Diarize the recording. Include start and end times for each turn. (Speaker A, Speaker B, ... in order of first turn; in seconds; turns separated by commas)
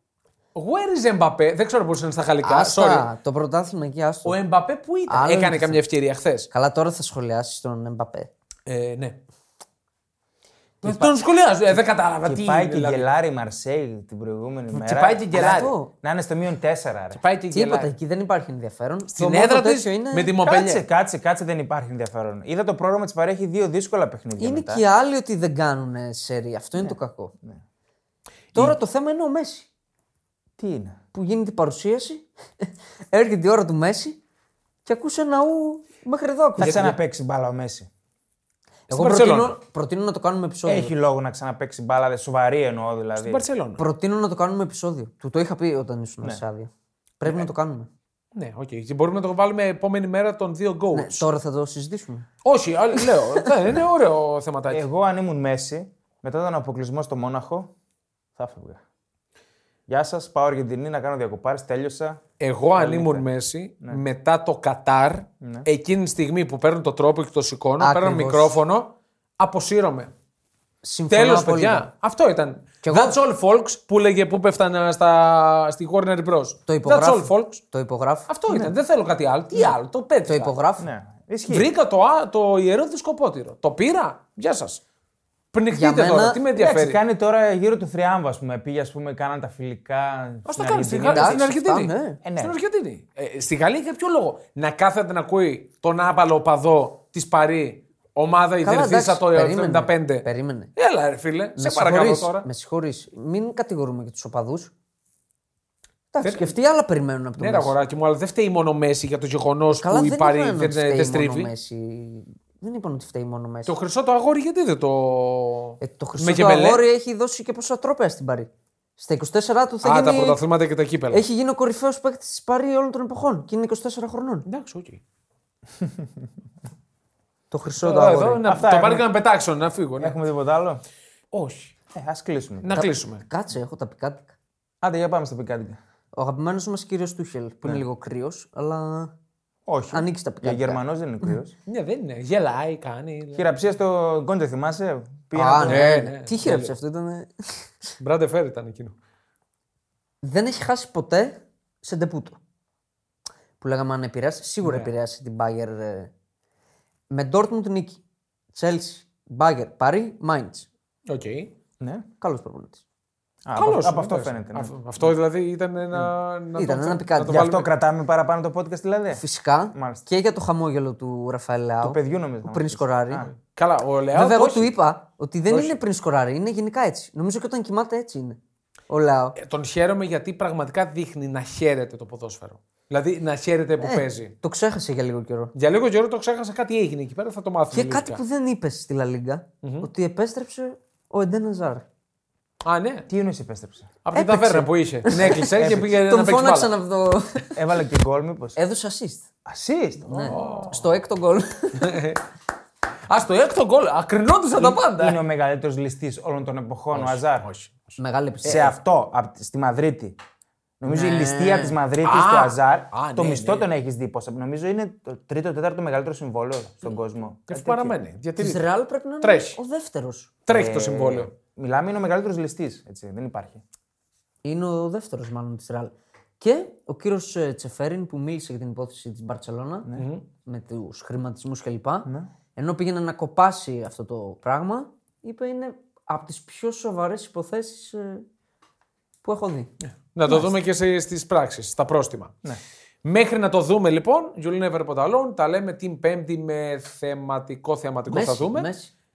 Speaker A: 0.5-3.1, Speaker B: 2.4-4.4, Speaker A: 4.2-6.5, Speaker B: 5.1-5.8, Speaker B: 6.5-8.3, Speaker A: 8.7-9.2, Speaker A: 10.8-13.1, Speaker C: 12.2-15.5, Speaker A: 14.7-15.7, Speaker B: 15.3-15.9, Speaker C: 16.0-17.2, Speaker A: 17.1-17.9, Speaker B: 17.5-20.3, Speaker A: 19.1-20.8, Speaker C: 20.4-24.8, Speaker B: 24.4-27.3, Speaker C: 26.8-27.6, Speaker B: 28.5-29.7, Speaker C: 30.6-31.0, Speaker B: 31.1-34.2, Speaker B: 34.8-36.9, Speaker C: 36.6-37.9, Speaker A: 36.6-37.0, Speaker A: 38.9-39.6, Speaker B: 38.9-40.9, Speaker C: 40.6-43.4, Speaker A: 43.2-43.8, Speaker B: 43.8-47.9, Speaker A: 48.3-51.3, Speaker B: 50.9-52.3, Speaker A: 52.4-54.9, Speaker B: 53.0-53.5, Speaker C: 54.7-57.7, Speaker C: 58.4-58.8, Speaker C: 59.9-62.2, Speaker A: 62.4-70.1, Speaker C: 62.8-63.3, Speaker C: 65.4-65.7, Speaker B: 67.8-68.6, Speaker B: 70.8-71.8, Speaker A: 71.1-77.6, Speaker B: 72.8-73.2, Speaker B: 76.7-78.7, Speaker A: 78.3-80.5, Speaker B: 80.2-80.9, Speaker C: 80.8-81.7, Speaker A: 81.5-84.8, Speaker A: 85.5-87.0, Speaker B: 85.7-86.4, Speaker C: 86.5-91.4, Speaker A: 90.5-102.5, Speaker B: 91.1-92.2, Speaker C: 92.2-92.5, Speaker B: 98.6-100.7, Speaker B: 101.6-104.7, Speaker B: 106.1-107.7, Speaker A: 106.2-106.5, Speaker A: 107.4-111.5, Speaker B: 109.7-113.7, Speaker A: 113.7-116.8, Speaker B: 115.8-120.4, Speaker A: 119.8-121.2, Speaker B: 121.1-124.5, Speaker A: 124.5-125.0, Speaker C: 125.8-126.1, Speaker B: 127.5-128.4, Speaker A: 127.8-130.2, Speaker C: 128.4-129.1, Speaker C: 130.0-130.8, Speaker A: 131.3-131.7, Speaker C: 131.9-132.8, Speaker A: 132.6-133.2, Speaker B: 132.7-134.3, Speaker C: 134.8-135.8, Speaker B: 136.1-139.1, Speaker C: 139.7-141.5, Speaker B: 139.9-141.4, Speaker A: 141.7-143.5, Speaker C: 143.3-145.8, Speaker B: 145.3-147.8, Speaker A: 145.6-146.7, Speaker A: 148.0-148.9, Speaker B: 150.2-152.4, Speaker B: 153.6-156.1, Speaker A: 154.6-154.9, Speaker B: 157.1-158.0, Speaker B: 158.5-160.7, Speaker A: 161.1-161.5, Speaker C: 161.8-162.1, Speaker B: 162.2-162.8, Speaker C: 163.4-165.1, Speaker A: 163.5-167.7, Speaker B: 166.6-167.4, Speaker C: 167.3-169.2, Speaker B: 169.1-173.3, Speaker C: 169.7-170.1, Speaker C: 171.8-173.3, Speaker A: 173.3-174.7, Speaker B: 174.1-178.4, Speaker B: 178.9-179.3, Speaker A: 179.3-184.3, Speaker B: 183.8-185.5, Speaker A: 185.5-188.2, Speaker B: 187.7-191.8, Speaker A: 189.6-189.9, Speaker A: 192.6-193.1, Speaker C: 193.1-193.9, Speaker A: 194.0-196.7, Speaker B: 194.1-197.6, Speaker C: 195.2-195.9, Speaker C: 197.5-198.6, Speaker B: 198.6-199.2, Speaker C: 199.4-200.4, Speaker B: 200.1-202.0, Speaker A: 200.2-200.9, Speaker A: 201.7-202.2, Speaker A: 203.1-205.2, Speaker C: 204.6-207.5, Speaker A: 206.9-207.9, Speaker B: 208.0-208.7, Speaker C: 208.4-210.2, Speaker C: 210.8-218.0, Speaker B: 210.9-211.8, Speaker A: 212.0-213.7, Speaker A: 217.5-218.7, Speaker B: 218.4-220.3, Speaker A: 219.2-219.6, Speaker A: 220.4-221.3, Speaker C: 220.5-223.6, Speaker B: 224.4-229.9, Speaker A: 229.9-230.2, Speaker B: 230.4-238.2, Speaker C: 232.1-232.3, Speaker B: 239.2-239.7, Speaker A: 240.1-242.3, Speaker A: 243.0-248.7, Speaker B: 248.1-248.9